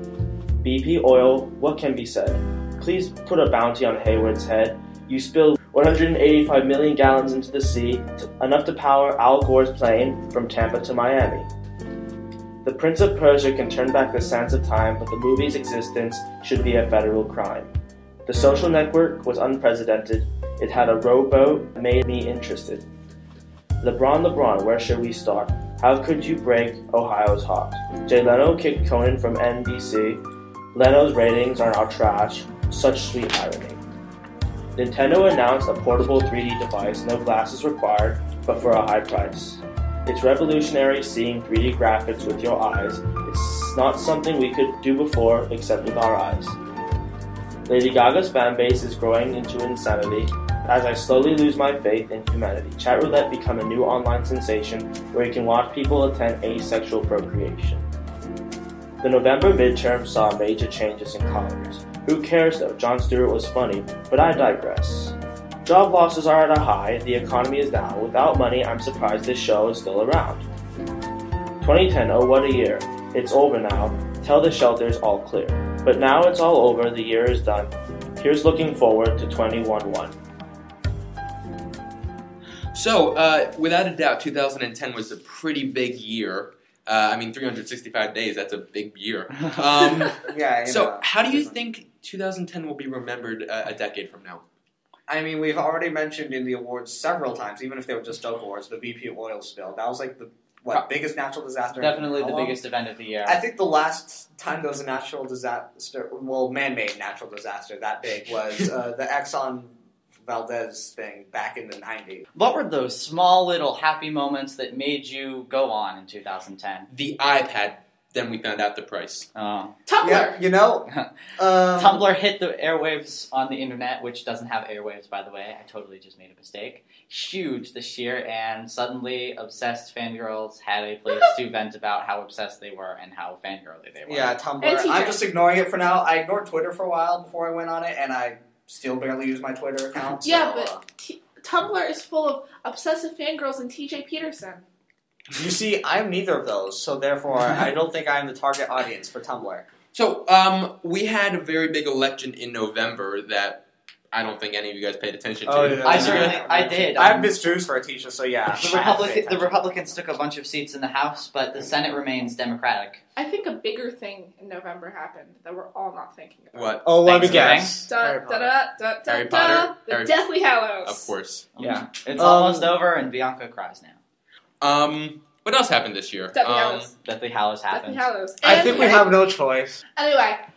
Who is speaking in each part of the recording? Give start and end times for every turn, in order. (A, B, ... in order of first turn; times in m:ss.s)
0:00.6-0:11.5 A
0:12.6-0:17.7 A
0:18.2-0:22.8 A
0:23.8-0:30.2 A
0:30.7-0:33.8 A
0:34.8-0:46.6 A
0:47.7-0:57.8 A
0:59.0-1:10.5 A
1:11.6-1:20.2 A
1:22.7-1:34.4 B
1:30.2-1:31.5 C
1:35.1-1:42.6 C
1:41.7-1:43.4 D
1:43.2-1:49.7 C
1:50.2-1:52.2 C
1:52.4-1:56.9 D
1:56.9-1:59.3 B
1:59.3-1:59.8 D
1:59.9-2:00.4 E
2:00.0-2:02.1 C
2:01.7-2:14.3 D
2:14.0-2:20.8 C
2:14.6-2:15.2 E
2:20.2-2:24.6 E
2:25.3-2:29.6 C
2:29.9-2:36.4 B
2:35.4-2:39.9 C
2:35.8-2:37.3 D
2:38.5-2:43.0 D
2:43.2-2:46.8 E
2:46.5-2:46.8 B
2:46.8-2:48.5 C
2:47.0-2:47.9 D
2:47.9-2:51.2 E
2:49.0-2:50.3 B
2:50.8-2:51.5 B
2:51.6-2:54.0 D
2:51.6-2:52.7 C
2:54.6-2:56.9 B
2:56.3-2:56.9 E
2:57.0-2:58.0 D
2:57.7-2:59.1 E
2:58.4-2:59.8 C
3:00.0-3:00.4 E